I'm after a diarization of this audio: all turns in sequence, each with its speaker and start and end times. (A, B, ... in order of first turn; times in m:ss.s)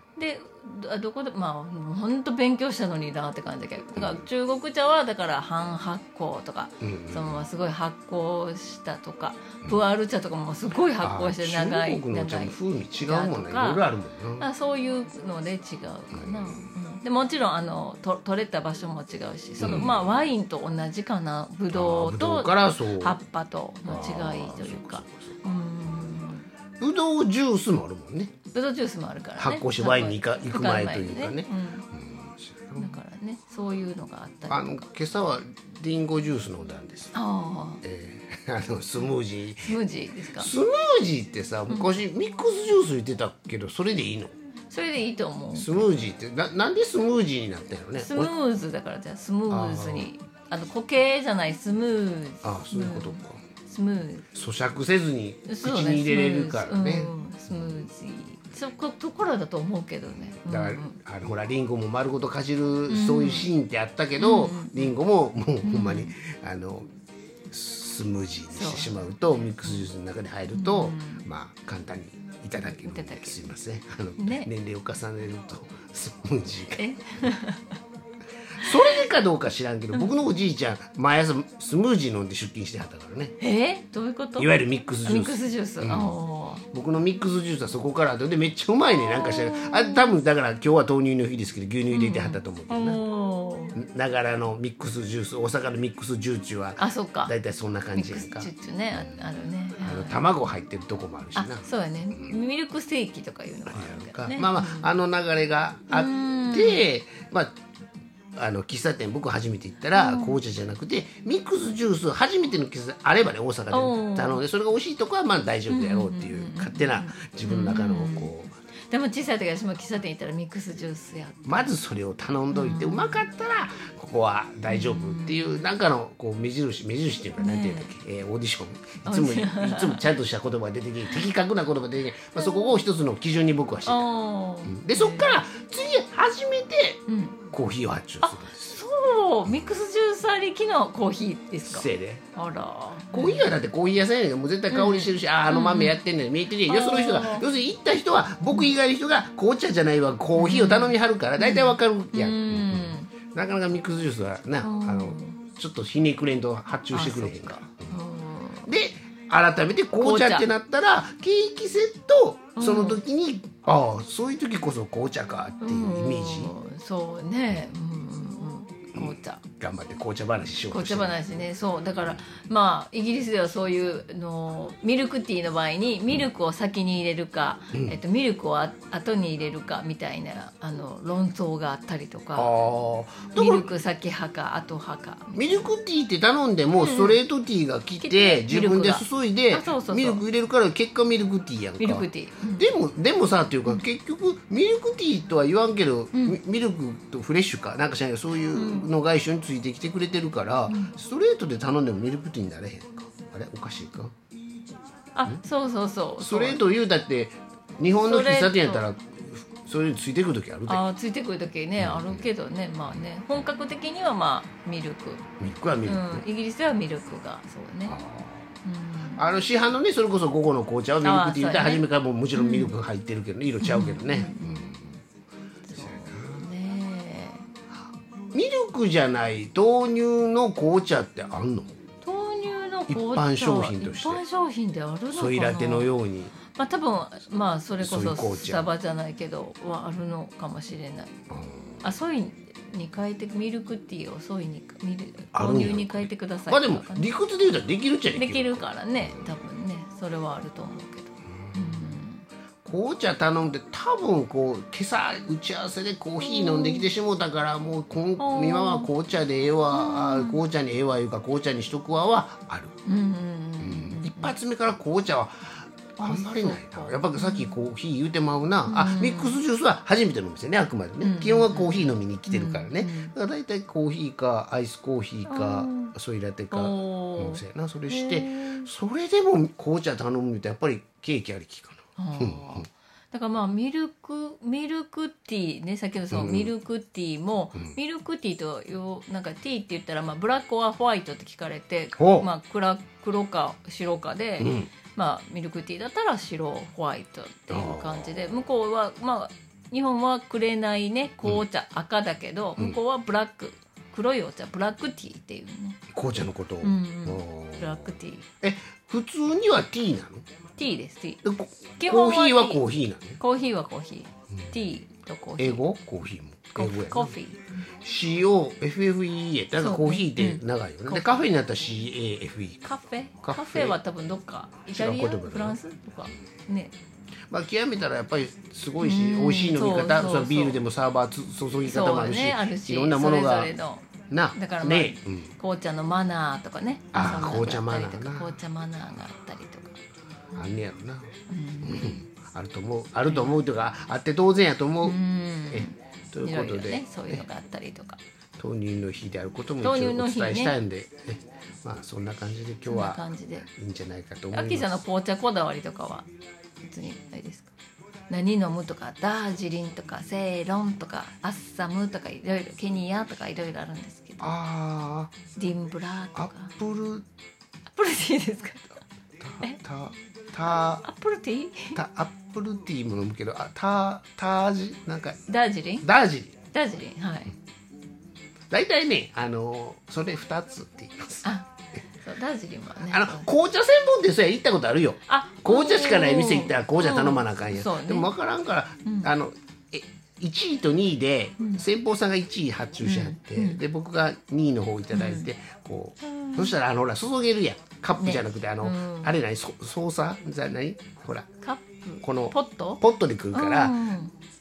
0:00.2-0:13.8 A
0:06.8-0:07.5 B
0:11.0-0:14.5 B
0:14.4-0:26.5 A
0:16.1-0:16.7 B
0:19.6-0:20.2 B
0:21.7-0:23.2 B
0:23.8-0:26.2 B
0:26.8-0:28.3 B
0:28.5-0:31.9 A
0:29.4-0:33.0 B
0:32.8-0:34.8 A
0:34.5-0:37.2 B
0:37.1-0:37.8 A
0:37.8-0:39.8 B
0:39.6-0:40.5 A
0:40.3-0:44.3 B
0:44.7-0:46.0 A
0:45.5-0:48.3 B
0:48.0-0:54.3 A
0:49.5-0:50.1 B
0:52.4-0:53.4 B
0:54.3-0:57.8 B
0:55.5-1:01.0 A
1:00.4-1:06.9 B
1:02.9-1:03.5 A
1:04.2-1:05.0 A
1:05.6-1:06.2 A
1:07.5-1:16.9 B
1:08.5-1:09.9 A
1:10.5-1:11.3 A
1:12.7-1:13.4 A
1:14.2-1:14.5 A
1:16.8-1:17.8 A
1:18.6-1:23.3 B
1:18.6-1:19.0 A
1:23.4-1:24.5 A
1:24.4-1:26.2 B
1:25.0-1:26.6 A
1:26.7-1:33.0 B
1:29.0-1:30.1 A
1:31.9-1:33.8 A
1:33.8-1:39.2 B
1:36.8-1:37.3 A
1:38.0-1:40.2 A
1:39.8-1:42.3 B
1:41.4-1:44.9 A
1:43.7-1:47.5 B
1:45.9-1:46.9 A
1:48.4-1:58.5 B
1:49.9-1:50.4 A
1:53.7-1:54.4 A
1:55.7-1:58.3 A
1:58.9-2:01.7 A
2:01.5-2:14.1 B
2:02.5-2:03.2 A
2:04.7-2:05.6 A
2:07.4-2:07.9 A
2:09.0-2:10.0 A
2:12.4-2:12.7 A
2:13.9-2:15.4 A
2:14.6-2:18.8 B
2:17.1-2:17.4 A
2:18.2-2:23.5 A
2:21.7-2:22.2 B
2:23.1-2:38.0 B
2:24.7-2:26.0 A
2:26.7-2:27.5 A
2:30.4-2:33.1 A
2:34.6-2:35.4 A
2:36.9-2:38.7 A
2:38.7-2:46.6 B
2:40.0-2:40.5 A
2:42.6-2:43.0 A
2:45.6-2:49.4 A
2:49.0-2:51.4 B
2:50.7-3:02.5 A
2:57.7-2:58.0 B
3:02.4-3:03.7 B
3:03.4-3:05.7 A
3:05.3-3:24.1 B
3:06.7-3:07.2 A
3:08.0-3:10.2 A
3:11.8-3:12.7 A
3:16.1-3:16.4 A
3:18.5-3:18.9 A
3:20.7-3:21.0 A
3:25.2-3:26.6 A
3:26.2-3:30.8 B
3:27.9-3:28.9 A
3:30.7-3:35.3 A
3:31.8-3:32.3 B
3:35.4-3:36.2 B
3:35.8-3:38.0 A
3:37.9-3:38.6 B
3:38.6-3:39.2 A
3:39.1-3:44.9 B
3:41.0-3:42.7 A
3:43.6-3:44.8 A
3:45.7-3:47.5 A
3:45.8-3:46.5 B
3:48.3-3:51.8 B
3:52.0-3:55.9 A
3:52.9-3:54.2 B
3:55.1-3:56.4 B
3:56.4-4:01.1 A
3:57.8-3:58.7 B
4:01.3-4:01.8 B
4:01.8-4:07.1 A
4:05.3-4:09.4 B
4:08.1-4:12.2 A
4:11.4-4:12.0 B
4:12.6-4:22.8 B
4:16.2-4:16.9 A
4:18.2-4:18.9 A
4:19.7-4:20.4 A
4:22.9-4:24.4 A
4:23.6-4:42.7 B
4:26.0-4:27.6 A
4:28.7-4:29.4 A
4:31.0-4:33.1 A
4:35.3-4:35.9 A
4:36.5-4:38.7 A
4:42.0-5:05.8 A
4:46.1-4:46.5 B
4:52.0-4:52.3 B
4:54.4-4:54.7 B
4:57.5-4:58.4 B
5:05.9-5:10.2 B
5:06.6-5:08.3 A
5:10.6-5:11.2 A
5:11.2-5:13.2 B
5:11.8-5:12.6 A
5:13.2-5:15.6 A
5:15.4-5:17.2 B
5:16.6-5:17.4 A
5:17.8-5:22.6 B
5:19.6-5:21.3 A
5:22.6-5:26.7 A
5:23.2-5:23.8 B
5:24.7-5:25.6 B
5:27.3-5:33.5 B
5:28.8-5:30.6 A
5:31.6-5:39.8 A
5:34.1-5:35.3 B
5:36.9-5:38.4 B
5:40.3-5:40.6 A
5:40.3-5:47.2 B
5:41.3-5:42.0 A
5:43.1-5:43.4 A
5:44.8-5:48.0 A
5:48.4-5:54.8 B
5:49.6-5:50.6 A
5:52.7-5:53.5 A
5:54.3-5:56.1 A
5:56.6-5:57.5 A
5:58.1-6:04.4 A
6:04.2-6:05.2 B
6:05.4-6:06.6 A
6:06.2-6:07.0 B
6:07.7-6:08.8 A
6:09.2-6:10.9 B
6:10.5-6:11.8 A
6:11.7-6:15.2 B
6:15.3-6:15.9 A
6:15.8-6:16.4 B
6:16.5-6:17.3 A
6:18.5-6:21.2 B
6:21.2-6:21.5 A
6:22.0-6:23.3 A
6:22.9-6:41.3 B
6:25.1-6:28.1 A
6:28.9-6:29.1 A
6:32.8-6:33.6 A
6:34.9-6:35.3 A
6:36.0-6:36.5 A
6:38.0-6:39.2 A
6:41.4-6:42.8 A
6:42.0-6:43.8 B
6:43.3-6:44.2 A